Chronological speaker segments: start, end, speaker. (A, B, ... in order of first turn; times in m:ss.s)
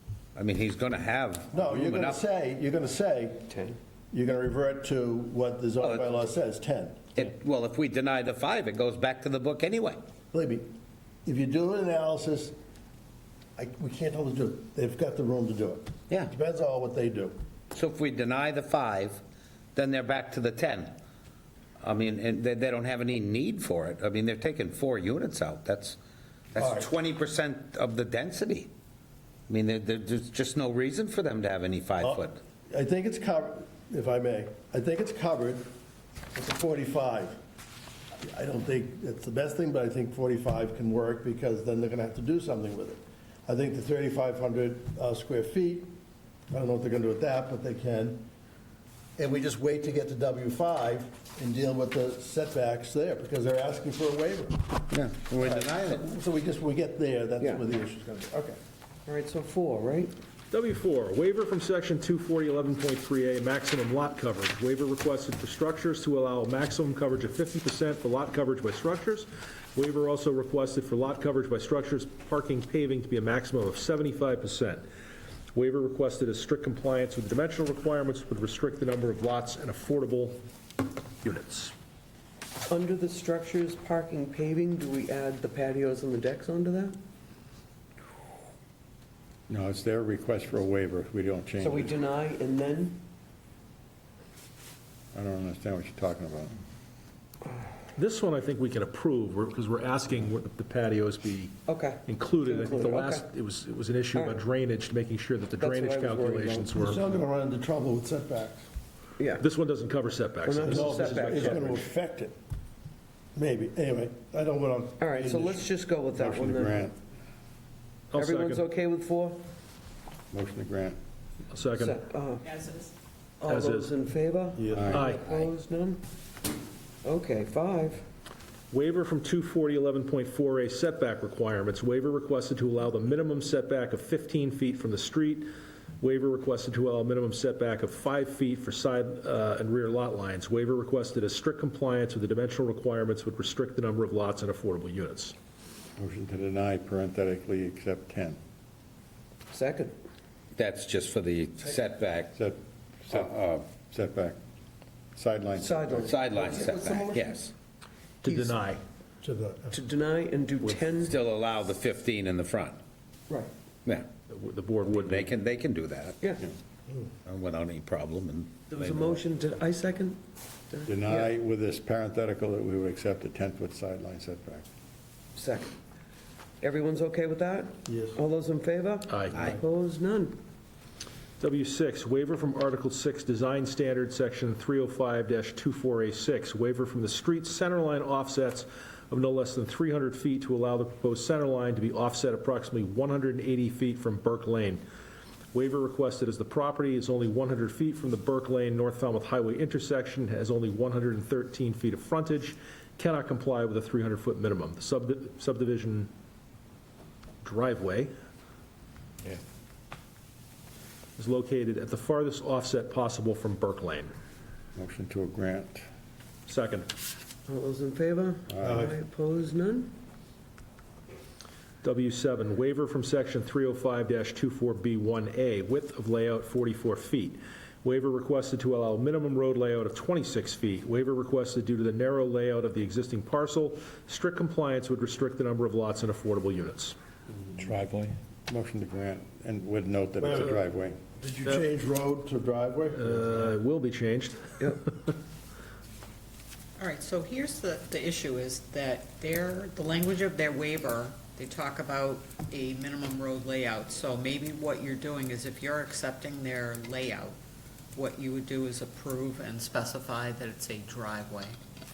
0:00.4-0:02.2 A
0:01.5-0:07.1 B
0:05.8-0:06.2 A
0:07.1-0:10.0 A
0:10.3-0:10.7 B
0:11.2-0:12.6 B
0:13.6-0:17.4 B
0:17.7-0:19.2 A
0:19.8-0:21.0 A
0:21.8-0:26.0 A
0:26.5-0:28.7 A
0:26.6-0:26.9 B
0:29.5-0:32.4 A
0:32.0-0:35.7 B
0:36.3-0:37.4 B
0:38.2-0:45.9 B
0:46.5-0:48.3 B
0:49.2-0:54.8 B
0:54.9-0:56.0 A
0:55.4-0:58.6 B
0:57.4-0:57.6 C
0:59.1-1:00.1 C
1:00.5-1:14.8 D
1:15.5-1:20.4 D
1:21.2-1:21.7 D
1:22.7-1:27.0 C
1:29.5-1:31.9 E
1:31.6-1:33.0 C
1:35.1-1:36.5 E
1:38.0-1:47.2 D
1:41.7-1:43.3 C
1:45.6-1:46.8 C
1:46.8-1:48.7 B
1:49.2-1:49.5 C
1:49.4-1:51.8 D
1:50.4-1:51.8 C
1:50.6-1:52.4 B
1:53.4-1:55.7 B
1:55.0-1:56.9 C
1:56.1-1:57.0 E
1:58.1-1:58.7 D
1:58.1-1:59.4 C
2:00.3-2:01.0 E
2:01.5-2:02.0 D
2:01.8-2:02.5 C
2:02.5-2:02.9 F
2:03.4-2:06.0 C
2:03.5-2:03.9 D
2:04.6-2:05.0 B
2:04.7-2:05.0 E
2:04.9-2:05.2 D
2:07.0-2:08.1 C
2:08.7-2:25.3 D
2:26.0-2:28.4 E
2:29.5-2:29.9 C
2:30.6-2:32.3 A
2:32.3-2:34.4 E
2:33.1-2:33.6 A
2:35.2-2:36.1 E
2:35.6-2:36.3 C
2:36.0-2:37.5 A
2:36.3-2:37.4 B
2:38.2-2:38.8 D
2:38.3-2:38.5 B
2:39.2-2:39.8 B
2:39.7-2:41.2 C
2:40.9-2:42.8 A
2:44.3-2:45.4 D
2:44.9-2:46.3 A
2:47.2-2:49.2 A
2:48.7-2:51.3 C
2:50.9-2:54.6 E
2:55.4-2:55.7 C
2:56.6-3:00.4 C
2:57.9-2:58.2 B
2:59.1-2:59.4 D
3:01.4-3:14.8 D
3:15.5-3:26.1 D
3:27.4-3:28.1 D
3:31.2-3:34.1 D
3:34.8-3:35.9 E
3:36.5-3:36.9 D
3:37.5-3:40.0 C
3:38.6-3:38.9 E
3:38.6-3:38.9 B
3:41.8-3:57.0 D
3:57.6-4:01.0 E
4:00.2-4:00.6 B
4:01.2-4:03.2 B
4:03.0-4:05.1 D
4:06.8-4:17.4 F
4:18.0-4:21.6 F